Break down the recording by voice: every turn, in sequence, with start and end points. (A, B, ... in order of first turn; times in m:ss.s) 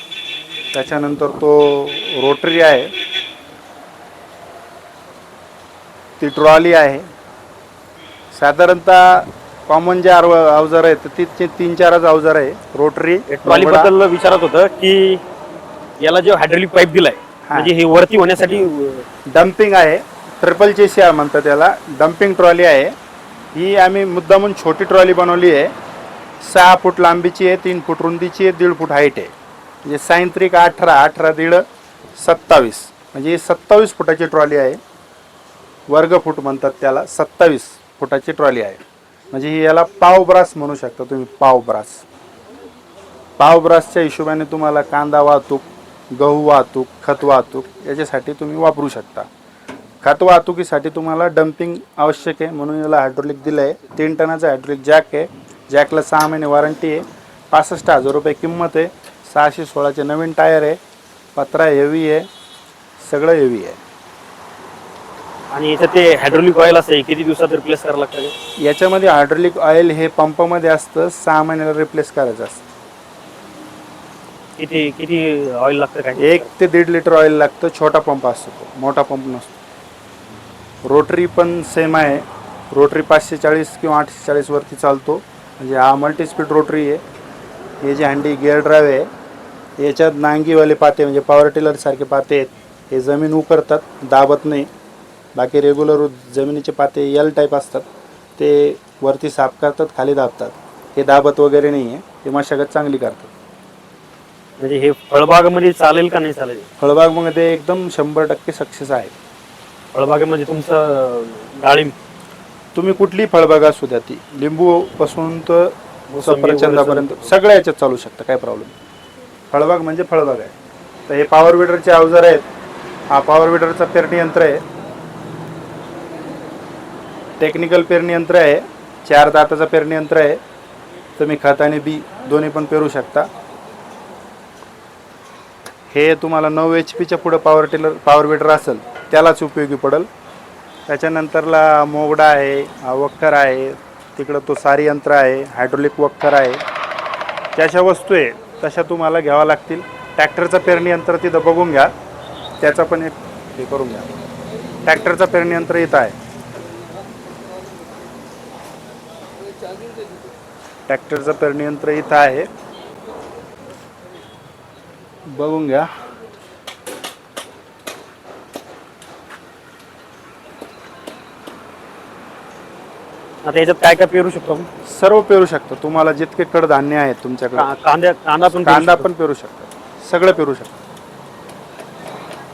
0:00.7-0:02.9 A
0:06.2-0:07.0 A
0:08.3-0:13.9 A
0:13.3-0:15.2 B
0:16.0-0:19.0 B
0:17.5-0:17.7 A
0:19.3-0:22.9 A
0:23.5-0:25.7 A
0:26.4-0:29.3 A
0:29.8-0:31.6 A
0:32.2-0:34.8 A
0:35.9-0:38.8 A
0:39.3-0:42.0 A
0:43.4-0:49.3 A
0:50.0-1:00.8 A
1:01.4-1:02.3 A
1:03.0-1:03.8 A
1:05.5-1:08.3 B
1:08.6-1:12.6 A
1:14.6-1:16.5 B
1:16.2-1:19.5 A
1:20.8-1:27.0 A
1:27.8-1:29.1 A
1:29.8-1:34.7 A
1:35.4-1:37.9 A
1:38.4-1:43.3 A
1:44.6-1:46.6 B
1:46.8-1:49.1 A
1:49.9-1:51.9 B
1:52.7-1:58.7 A
1:56.1-1:57.3 B
1:59.5-2:00.5 A
2:01.1-2:02.4 A
2:03.1-2:04.6 A
2:07.4-2:10.4 A
2:11.2-2:13.3 A
2:15.9-2:20.1 A
2:20.9-2:26.6 A
2:27.6-2:31.9 A
2:32.6-2:34.1 A
2:34.8-2:36.2 A
2:40.9-2:42.5 A
2:45.3-2:45.9 A
2:53.4-2:54.7 B
2:54.8-2:57.7 A
2:57.6-2:59.1 B
2:58.5-3:00.7 A